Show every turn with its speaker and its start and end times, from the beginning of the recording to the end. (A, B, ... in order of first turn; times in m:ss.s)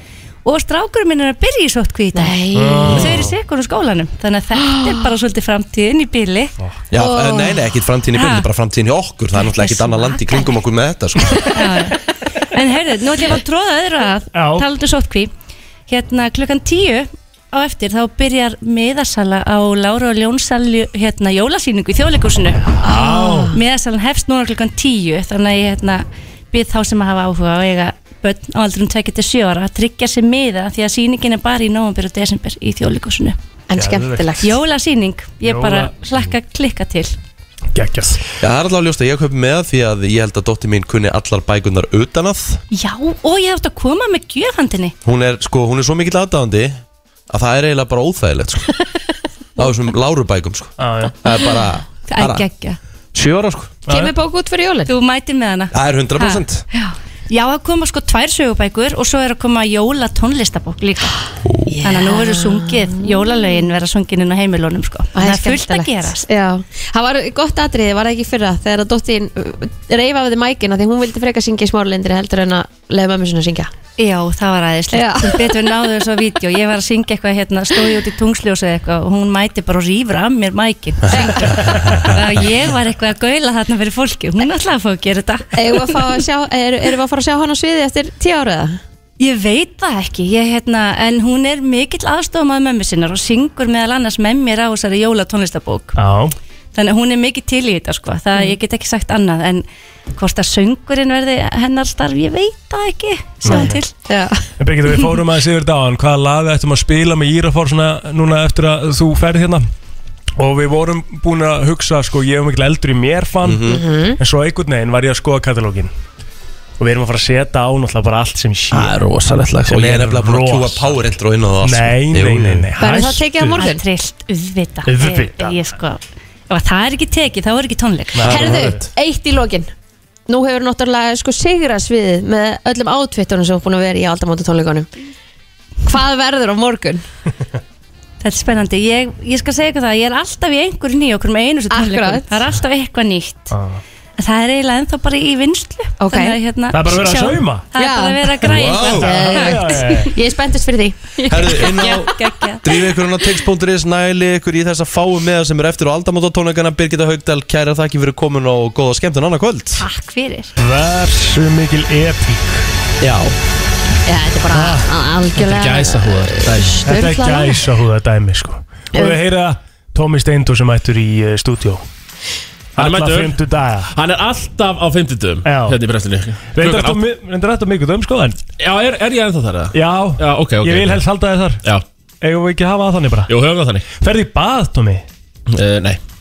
0:00.4-0:06.6 A
0:02.1-0:03.1 B
0:02.6-0:03.3 C
0:04.6-0:05.0 B
0:06.9-0:11.6 D
0:07.0-0:07.6 B
0:08.1-0:08.5 A
0:09.5-0:10.5 A
0:11.5-0:15.3 A
0:14.3-0:14.7 C
0:15.9-0:22.9 A
0:22.8-0:23.6 B
0:22.9-0:23.5 C
0:23.5-0:33.4 A
0:33.7-0:34.6 B
0:33.7-0:34.3 C
0:34.4-0:37.2 A
0:35.4-0:36.0 C
0:37.7-0:38.2 C
0:38.4-0:42.6 D
0:42.7-0:45.0 A
0:45.0-0:48.7 D
0:49.6-0:52.5 D
0:50.8-0:51.2 C
0:52.1-0:52.8 A
0:53.1-0:53.8 D
0:53.9-0:54.1 C
0:53.9-0:54.9 B
0:54.9-1:01.2 A
0:55.7-0:56.6 D
1:01.4-1:01.7 D
1:01.7-1:03.4 B
1:01.8-1:06.3 A
1:05.2-1:13.7 B
1:14.0-1:26.0 A
1:14.9-1:15.7 B
1:21.1-1:21.7 B
1:25.5-1:28.8 B
1:29.2-1:36.0 A
1:36.0-1:36.4 C
1:36.7-1:43.9 A
1:43.4-1:43.8 C
1:43.5-1:44.5 B
1:44.6-1:49.6 C
1:50.4-1:55.9 C
1:53.4-1:53.8 D
1:53.7-1:54.2 B
1:56.8-1:59.0 C
1:58.7-2:02.7 D
1:59.7-2:01.0 C
2:01.6-2:03.6 C
2:02.8-2:03.8 B
2:03.6-2:08.4 A
2:04.9-2:05.6 C
2:08.2-2:08.8 C
2:08.3-2:09.7 B
2:10.3-2:14.9 B
2:15.8-2:17.1 B
2:18.2-2:23.6 A
2:21.7-2:22.4 B
2:23.5-2:23.8 C
2:24.2-2:29.8 A
2:26.0-2:26.4 B
2:26.7-2:27.7 C
2:27.8-2:32.2 B
2:28.5-2:29.1 D
2:29.0-2:30.1 C
2:31.3-2:39.8 D
2:31.6-2:32.7 A
2:39.8-2:40.5 A
2:40.6-2:42.7 C
2:43.0-2:43.4 D
2:44.1-2:47.6 B
2:44.5-2:44.9 C
2:45.4-2:46.8 E
2:46.8-2:51.8 C
2:52.8-2:53.9 C
2:52.8-2:53.4 E
2:53.9-2:57.0 E
2:55.4-2:55.8 C
2:56.5-2:58.4 C
2:58.6-3:01.0 E
2:59.7-3:01.6 C
3:02.2-3:03.3 C
3:03.3-3:03.9 E
3:04.0-3:05.0 C
3:05.5-3:06.0 E